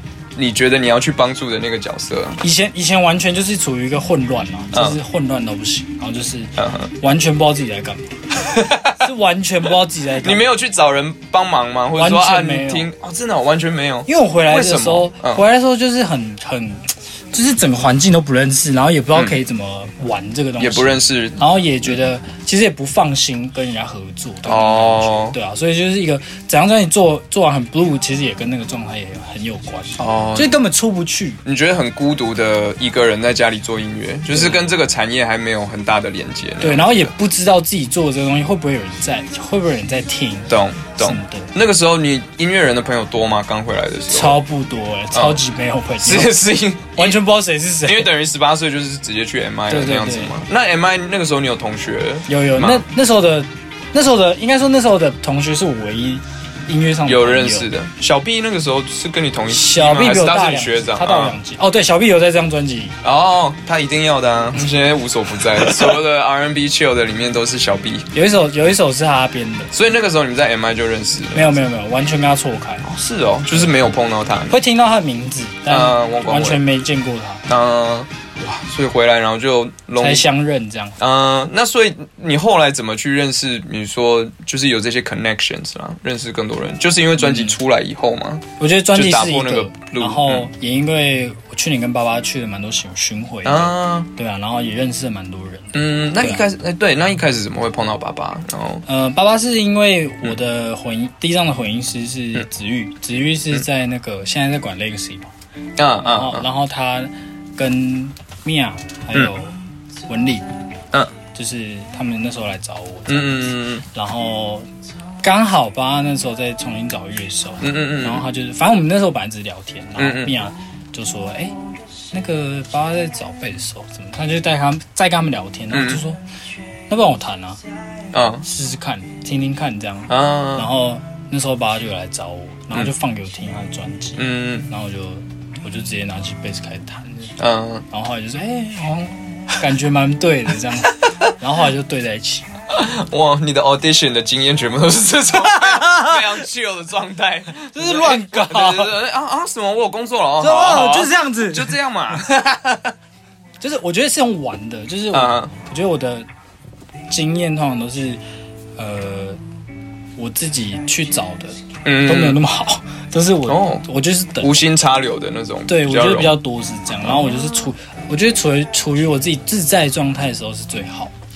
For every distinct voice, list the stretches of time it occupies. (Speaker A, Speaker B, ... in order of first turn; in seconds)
Speaker A: 0.3-2.4, 4.7-5.0, 6.6-6.9, 8.4-9.0, 10.2-15.4, 20.6-21.9, 24.4-25.4, 30.0-30.6, 31.4-37.1, 40.5-44.4, 45.1-45.4, 46.0-47.2, 47.8-52.8, 57.0-61.4, 63.0-68.1, 69.7-71.6, 72.8-74.6, 75.7-76.6, 77.5-80.2, 81.0-90.5, 93.4-94.1, 95.7-98.8, 105.8-106.4, 113.1-113.8, 117.6-118.2, 120.0-120.3, 125.7-126.0, 128.1-128.4, 130.1-130.7, 134.2-134.7, 137.4-137.8, 142.7-152.9, 155.1-155.5, 161.8-162.4, 163.5-163.8, 164.4-166.4, 167.0-167.3
Speaker B: 2.4-8.2, 8.9-10.5, 11.9-12.9, 14.1-31.4, 34.3-34.7, 36.6-41.5, 44.1-46.4, 46.9-48.1, 49.7-50.4, 52.3-57.7, 59.5-63.0, 68.1-69.7, 71.3-72.9, 74.5-77.5, 80.0-81.0, 87.2-87.5, 88.6-96.4, 98.8-105.3, 106.0-109.5, 110.1-110.5, 111.3-114.7, 115.2-121.6, 122.1-126.2, 126.9-127.6, 128.4-137.4, 137.9-142.5, 145.3-146.2, 147.7-148.9, 150.4-151.8, 153.6-156.3, 157.1-158.2, 158.8-159.4, 160.2-164.7, 165.7-171.1